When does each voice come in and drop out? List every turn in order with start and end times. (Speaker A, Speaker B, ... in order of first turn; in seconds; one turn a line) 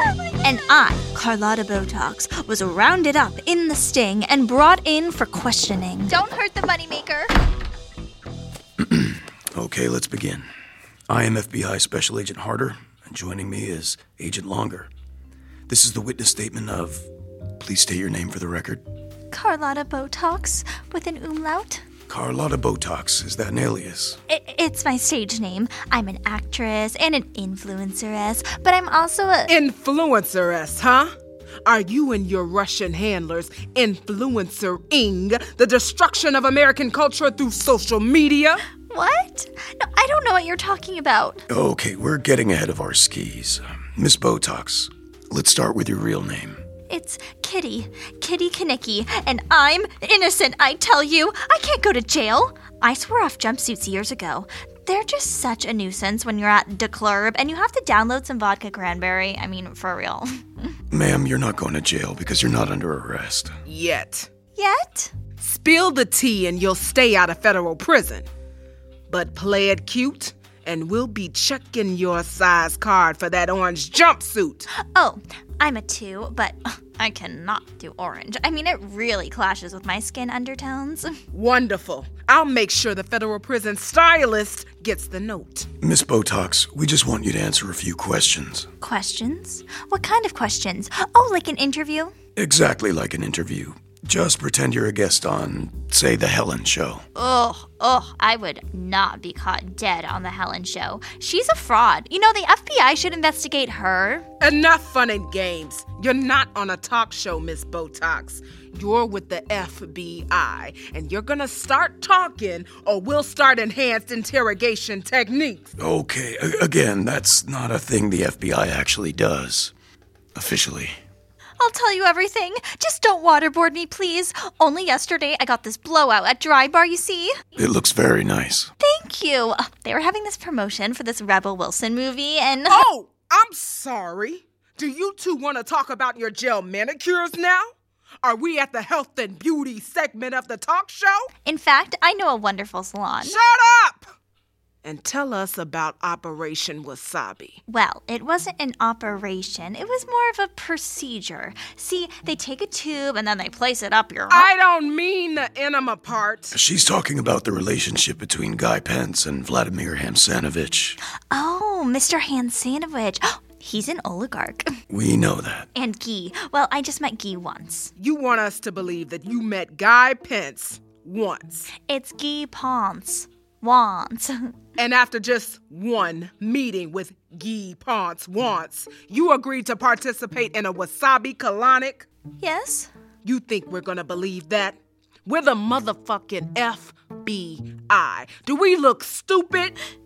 Speaker A: 0.4-7.3
Speaker B: 8.8-10.4
Speaker B: 11.1-14.9
Speaker B: 15.7-17.1
Speaker B: 17.6-18.8
Speaker A: 19.3-21.8
Speaker B: 22.1-24.2
Speaker A: 24.3-29.5
Speaker C: 29.5-31.1
Speaker C: 31.6-38.6
Speaker A: 38.9-41.4
Speaker B: 41.5-46.6
Speaker A: 46.9-60.7
Speaker B: 60.9-63.5
Speaker C: 63.7-64.3
Speaker A: 64.5-65.1
Speaker C: 65.4-68.2
Speaker C: 69.1-74.7
Speaker A: 74.9-81.1
Speaker C: 81.3-85.7
Speaker B: 85.8-88.7
Speaker A: 88.8-92.1
Speaker B: 92.3-97.0
Speaker A: 97.2-104.3
Speaker C: 104.4-115.7
Speaker B: 115.8-119.7
Speaker B: 120.3-121.0
Speaker A: 121.6-127.3
Speaker B: 127.5-128.7
Speaker A: 128.8-132.8
Speaker C: 132.7-137.7
Speaker C: 138.2-141.3
Speaker A: 141.4-143.3
Speaker C: 143.2-144.1
Speaker C: 144.8-147.6
Speaker A: 147.7-154.5
Speaker C: 154.3-156.5
Speaker B: 156.5-161.0
Speaker A: 161.3-164.7
Speaker B: 164.9-165.7
Speaker A: 165.7-167.9
Speaker C: 168.0-171.7
Speaker A: 171.8-174.5
Speaker C: 174.8-182.1
Speaker A: 182.4-182.9
Speaker C: 183.2-189.7